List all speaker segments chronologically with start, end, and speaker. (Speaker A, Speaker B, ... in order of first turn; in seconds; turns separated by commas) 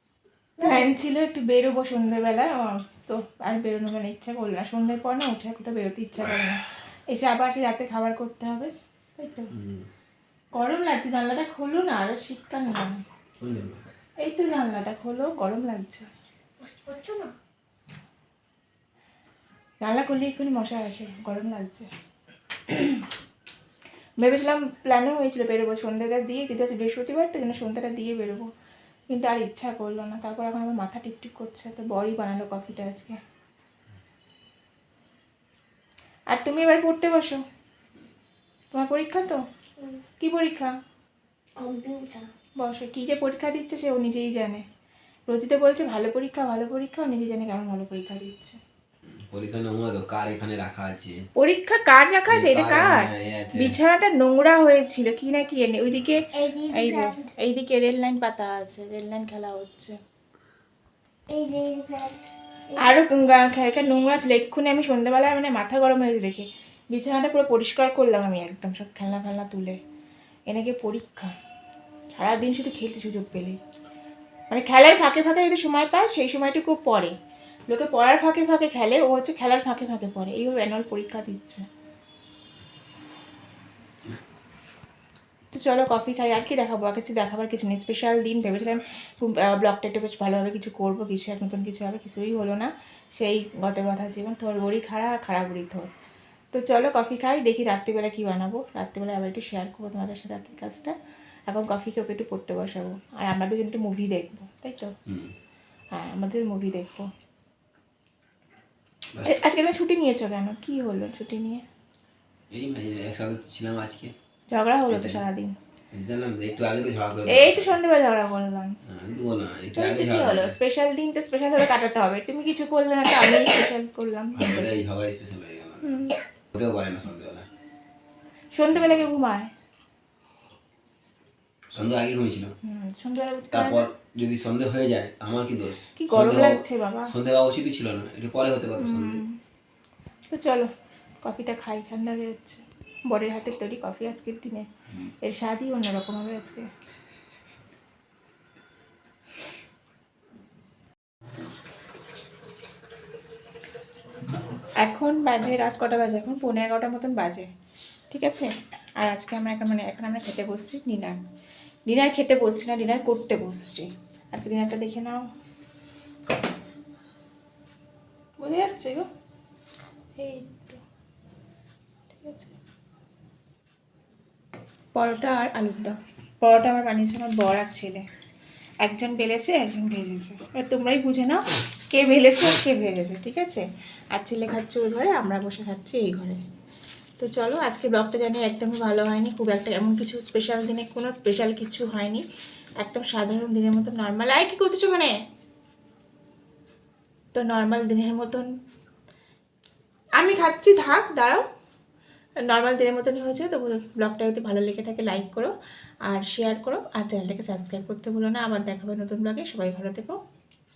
Speaker A: 0.6-0.8, Speaker B: 0.6-9.5, Speaker C: 9.5-9.9, Speaker B: 10.6-13.0, Speaker C: 13.4-13.9, Speaker B: 14.2-16.1, Speaker A: 16.6-17.3, Speaker B: 19.8-21.9, Speaker B: 22.7-23.1, Speaker B: 24.2-28.5, Speaker B: 29.1-33.2, Speaker B: 36.3-37.4, Speaker B: 38.7-39.4, Speaker A: 39.8-40.0, Speaker B: 40.2-40.7, Speaker A: 41.5-42.3, Speaker B: 42.6-44.6, Speaker B: 45.3-48.6, Speaker C: 49.3-51.2, Speaker B: 51.4-60.0, Speaker C: 52.3-53.8, Speaker A: 56.3-57.3, Speaker A: 61.3-63.0, Speaker B: 62.8-69.8, Speaker B: 70.5-71.3, Speaker B: 72.1-73.6, Speaker B: 74.5-77.1, Speaker B: 77.7-81.6, Speaker B: 85.5-95.9, Speaker B: 96.5-101.0, Speaker B: 101.5-104.9, Speaker C: 105.1-105.3, Speaker B: 105.9-107.1, Speaker C: 109.1-109.4, Speaker B: 109.2-111.6, Speaker C: 112.5-114.1, Speaker B: 114.5-115.5, Speaker C: 114.9-115.2, Speaker C: 115.9-117.8, Speaker B: 117.3-118.8, Speaker C: 118.8-120.5, Speaker B: 119.8-124.8, Speaker C: 124.3-127.5, Speaker B: 125.8-126.2, Speaker B: 128.6-129.5, Speaker C: 128.7-129.1, Speaker C: 131.7-132.5, Speaker B: 132.6-133.8, Speaker C: 133.5-139.2, Speaker B: 136.0-137.1, Speaker B: 138.8-139.4, Speaker B: 140.3-140.7, Speaker B: 141.2-144.7, Speaker B: 145.2-146.7, Speaker B: 154.8-157.5, Speaker B: 158.1-161.2, Speaker B: 161.9-165.2, Speaker B: 168.4-169.1, Speaker B: 170.2-170.8, Speaker B: 172.1-172.5, Speaker B: 174.9-178.0, Speaker B: 178.8-186.4, Speaker B: 187.2-192.2, Speaker B: 192.8-195.1, Speaker B: 197.3-198.5, Speaker B: 200.2-201.4, Speaker B: 202.4-205.5, Speaker B: 206.1-210.2